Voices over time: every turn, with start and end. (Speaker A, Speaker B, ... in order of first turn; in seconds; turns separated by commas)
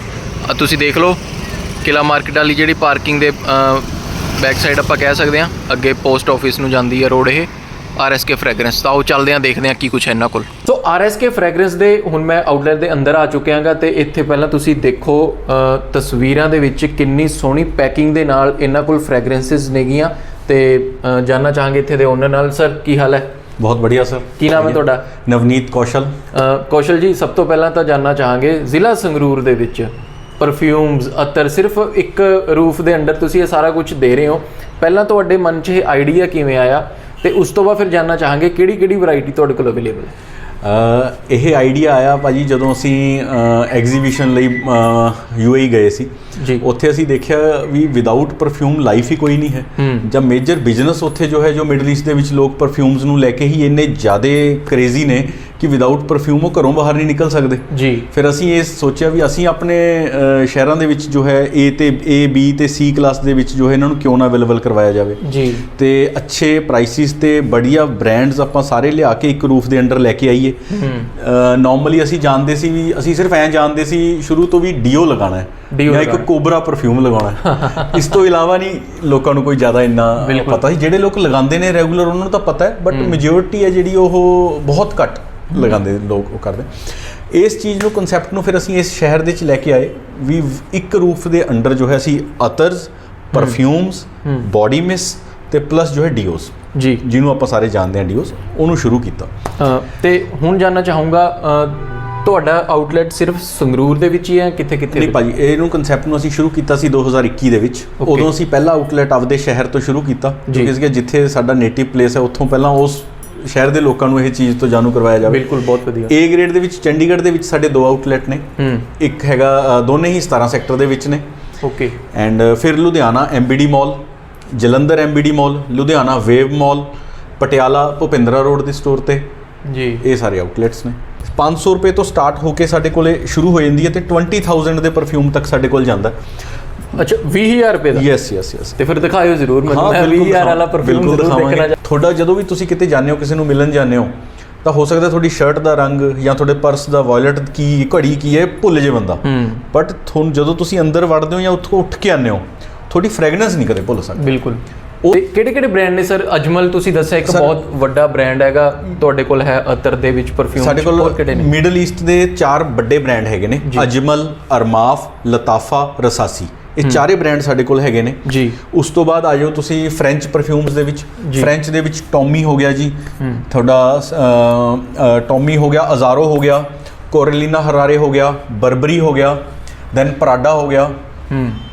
Speaker A: 0.5-1.2, Speaker A: 1.8-23.3, Speaker B: 23.6-26.1, Speaker A: 24.4-25.1, Speaker A: 26.3-40.1, Speaker B: 40.6-70.6, Speaker A: 46.4-46.6, Speaker A: 49.8-50.1, Speaker A: 57.7-58.1, Speaker A: 65.2-65.7, Speaker A: 70.7-71.1, Speaker B: 71.1-99.3, Speaker A: 75.7-76.3, Speaker A: 77.4-78.1, Speaker A: 80.2-80.6, Speaker A: 82.9-83.2, Speaker A: 93.3-93.6, Speaker A: 96.8-97.0, Speaker A: 99.6-105.2, Speaker B: 104.9-115.5, Speaker A: 108.0-108.3, Speaker A: 110.5-110.7, Speaker A: 115.3-116.1, Speaker B: 116.1-118.4, Speaker A: 118.6-118.9, Speaker B: 119.0-121.2, Speaker A: 121.6-122.0, Speaker B: 122.1-124.0, Speaker B: 124.5-129.3, Speaker A: 129.7-130.0, Speaker B: 130.0-136.1, Speaker A: 136.9-138.1, Speaker B: 137.9-138.8, Speaker A: 138.8-141.8, Speaker B: 139.7-144.1, Speaker B: 144.6-154.4, Speaker A: 149.2-149.6, Speaker A: 154.2-161.5, Speaker B: 157.2-157.6, Speaker B: 160.6-179.4, Speaker A: 168.2-168.6, Speaker A: 171.2-171.5, Speaker A: 173.2-173.4, Speaker B: 179.9-180.9, Speaker A: 181.3-181.6